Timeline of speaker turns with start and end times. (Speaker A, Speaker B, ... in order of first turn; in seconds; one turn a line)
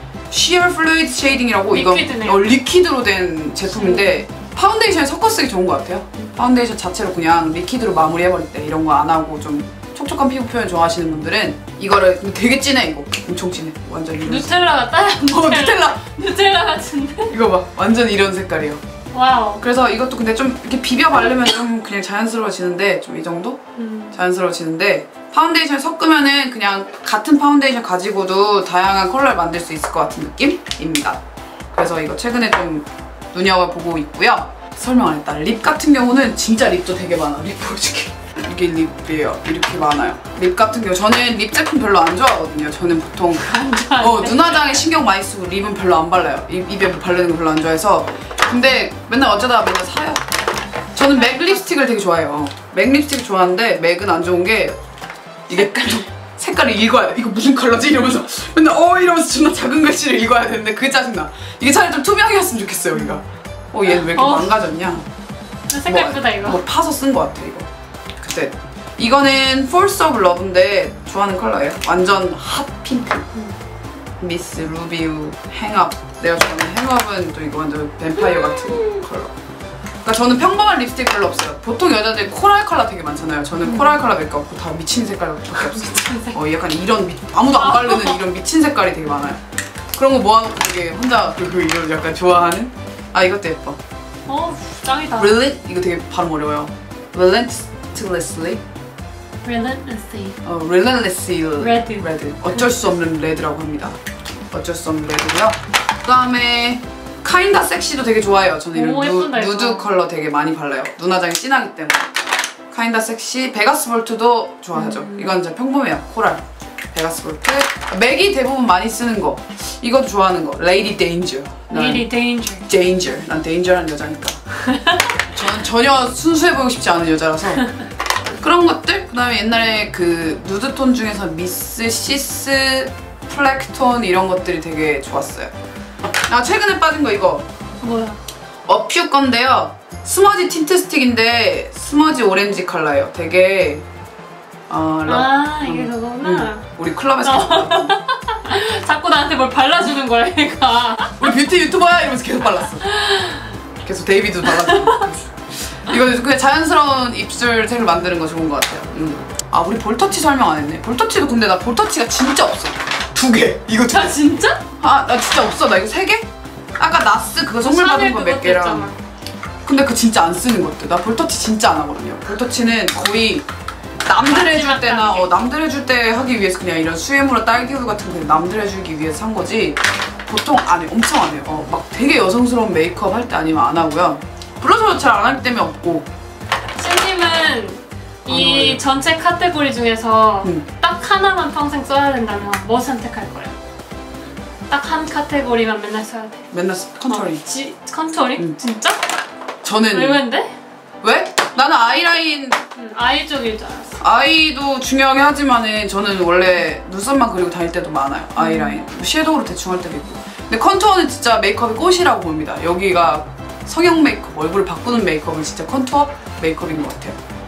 Speaker A: 0.3-16.0
Speaker B: 1.7-2.5
Speaker B: 3.7-4.2
Speaker B: 14.2-17.4
Speaker A: 17.3-18.8
Speaker B: 19.1-19.6
Speaker A: 19.6-23.6
Speaker B: 23.8-24.2
Speaker A: 24.1-31.2
Speaker A: 31.7-50.2
Speaker B: 43.5-44.7
Speaker A: 51.0-54.8
Speaker B: 51.1-51.6
Speaker A: 55.5-65.1
Speaker B: 63.9-64.6
Speaker B: 65.7-66.6
Speaker A: 65.8-67.7
Speaker A: 68.2-73.3
Speaker A: 74.2-79.3
Speaker B: 78.2-79.0
Speaker A: 80.0-89.4
Speaker B: 83.6-84.0
Speaker B: 85.6-86.4
Speaker B: 87.5-88.2
Speaker A: 90.0-93.8
Speaker B: 94.3-95.4
Speaker A: 95.2-98.6
Speaker B: 99.4-100.4
Speaker A: 100.5-104.0
Speaker B: 101.6-102.7
Speaker A: 104.5-112.1
Speaker B: 108.7-109.9
Speaker A: 112.7-116.4
Speaker B: 114.7-115.4
Speaker A: 116.9-122.1
Speaker B: 121.7-122.7
Speaker A: 122.7-124.4
Speaker B: 124.7-125.2
Speaker A: 125.3-127.7
Speaker A: 128.3-135.5
Speaker A: 136.3-137.5
Speaker B: 137.8-138.2
Speaker A: 138.7-143.8
Speaker A: 144.7-148.0
Speaker B: 145.1-146.7
Speaker B: 147.2-151.3
Speaker A: 151.2-152.9
Speaker B: 152.8-153.5
Speaker A: 153.8-164.3
Speaker B: 154.4-155.1
Speaker B: 163.8-164.6
Speaker A: 164.8-166.3
Speaker A: 166.8-168.9
Speaker B: 167.6-169.0
Speaker A: 169.7-173.5
Speaker A: 174.1-186.1
Speaker B: 174.2-175.3
Speaker B: 186.8-193.6
Speaker A: 188.3-188.8
Speaker B: 194.7-196.5
Speaker A: 196.5-197.4
Speaker B: 197.1-199.0
Speaker A: 199.6-200.2
Speaker B: 199.9-200.5
Speaker A: 201.0-202.6
Speaker B: 202.7-204.0
Speaker A: 204.0-217.2
Speaker B: 208.4-208.8